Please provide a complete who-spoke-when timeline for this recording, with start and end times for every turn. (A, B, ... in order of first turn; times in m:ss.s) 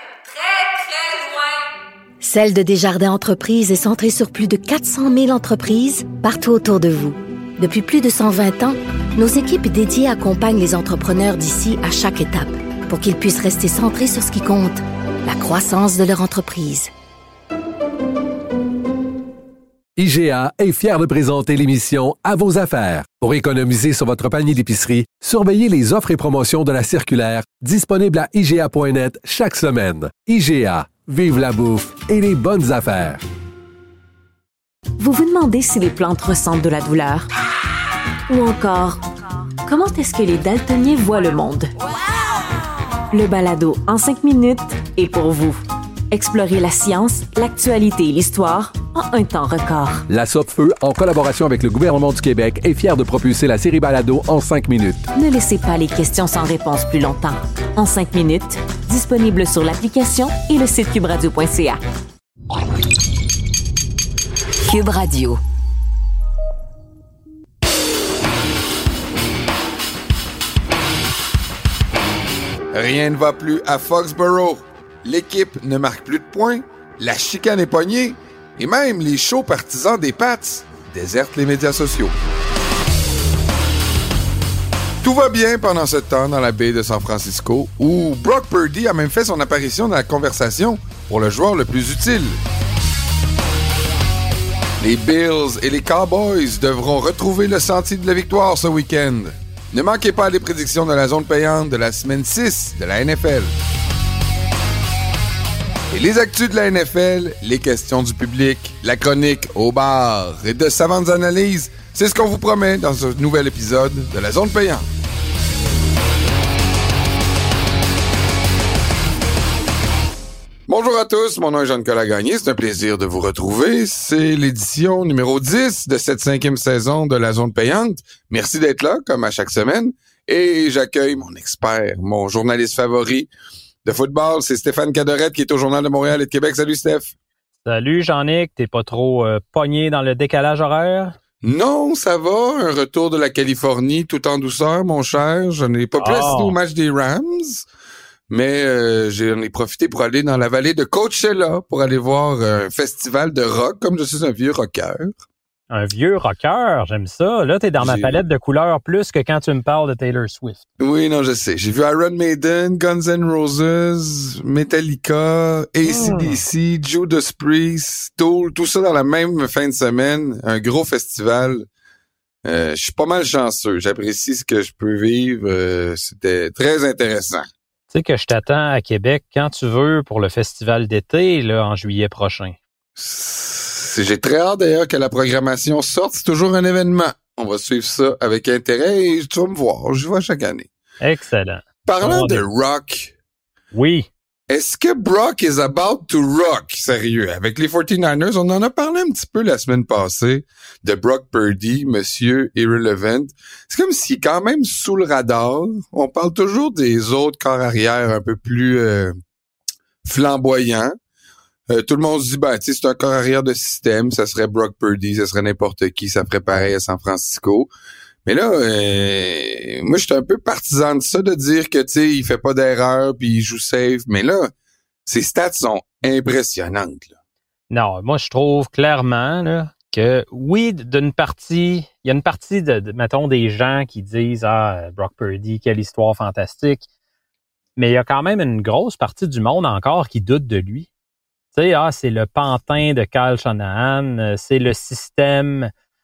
0:00.4-0:01.3 A
0:02.2-0:16.9 A
0:20.0-0:33.2 B
0:35.0-0:37.3 C
0:38.3-0:39.0 C
0:39.6-0:41.7 C
0:43.1-0:50.0 C
0:50.1-0:55.0 B
0:55.1-1:01.8 C
1:04.6-1:05.4 A
1:12.7-1:22.1 D
1:25.0-1:32.4 D
1:34.8-1:43.5 D
1:45.9-1:54.9 D
2:00.7-2:13.3 D
2:13.8-2:17.1 D
2:17.6-2:21.1 E
2:21.4-2:27.6 D
2:26.0-2:26.6 E
2:28.3-2:35.1 D
2:35.7-2:40.6 E
2:37.8-2:38.1 D
2:40.8-2:51.7 D
2:45.8-2:46.4 E
2:52.4-2:57.5 D
2:57.9-3:02.6 E
3:03.0-3:10.7 D
3:11.0-3:12.4 E
3:11.8-3:13.1 D
3:13.7-3:14.1 E
3:14.5-3:29.2 D
3:30.0-3:30.9 D
3:31.7-3:37.7 D
3:38.2-3:44.5 D
3:45.0-3:47.1 D
3:47.7-3:56.8 E
3:57.8-4:00.9 E
4:01.5-4:05.7 E